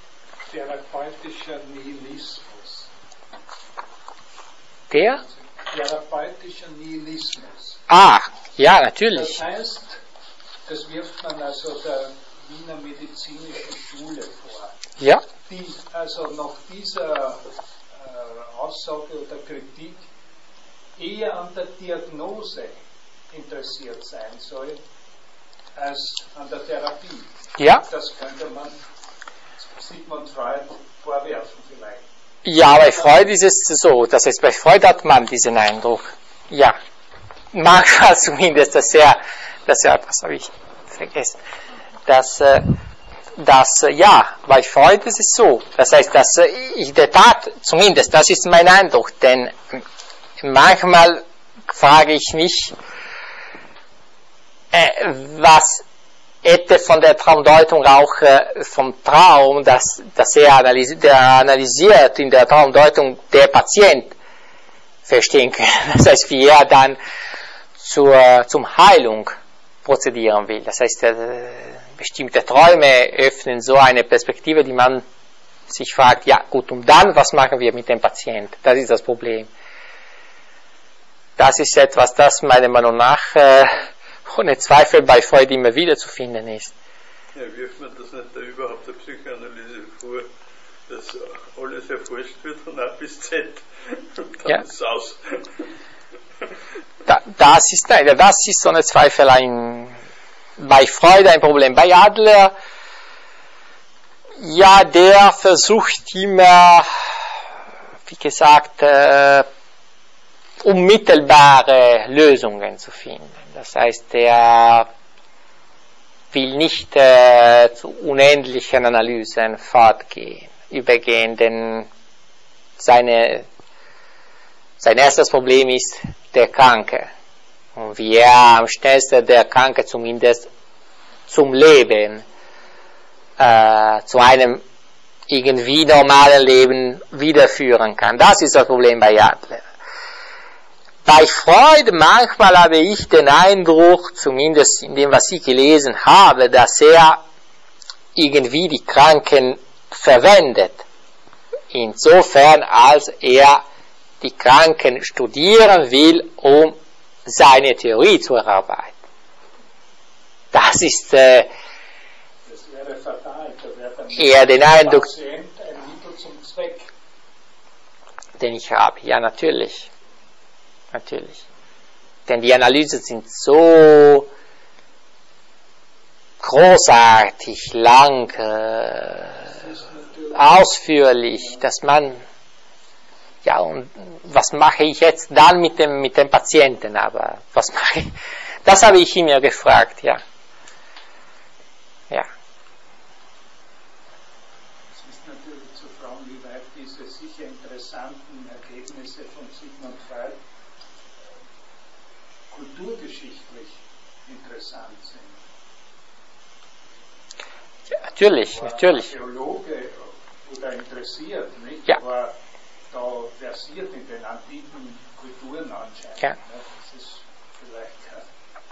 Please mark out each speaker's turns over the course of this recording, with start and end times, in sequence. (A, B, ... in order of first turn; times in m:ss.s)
0:00.5-0:02.9 A
0:04.9-0:05.2 B
0:05.5-0:07.8 A
0:07.9-0:09.4 B
0:09.1-0:10.0 A
0:10.7-0:14.8 A
0:15.4-0:20.1 A
0:21.0-0:22.8 A
0:23.3-0:24.8 A
0:25.8-0:28.8 A
0:27.6-0:27.8 B
0:29.6-0:32.0 A
0:32.4-0:36.8 B
0:37.5-0:41.4 B
0:42.1-0:42.7 B
0:43.4-0:49.8 B
0:50.4-0:52.8 B
0:54.7-0:55.8 B
0:56.4-1:04.2 B
1:05.1-1:07.0 B
1:07.8-1:09.3 B
1:09.8-1:15.0 B
1:15.7-1:19.5 B
1:21.4-1:23.7 B
1:24.2-1:26.8 B
1:27.3-1:30.3 C
1:30.9-1:35.7 C
1:37.1-1:40.0 B
1:40.6-1:42.5 B
1:44.4-1:47.2 B
1:48.1-1:49.5 B
1:50.6-1:54.9 B
1:56.3-2:01.9 B
2:02.8-2:03.5 B
2:04.8-2:07.1 B
2:07.8-2:10.5 B
2:11.3-2:12.2 B
2:13.4-2:14.6 B
2:15.3-2:19.7 B
2:21.0-2:27.2 B
2:28.2-2:30.8 B
2:31.7-2:33.6 B
2:34.2-2:38.9 B
2:40.5-2:41.5 B
2:42.5-2:46.9 A
2:44.2-2:45.1 B
2:48.4-2:49.9 B
2:50.9-2:51.4 B
2:52.3-2:54.3 B
2:56.4-2:59.6 B
2:59.5-3:00.6 A
3:00.3-3:02.2 B
3:01.4-3:01.6 A
3:03.4-3:10.2 B
3:15.0-3:20.4 A
3:22.5-3:25.4 A
3:28.1-3:29.1 B
3:28.5-3:32.4 A
3:32.9-3:38.3 A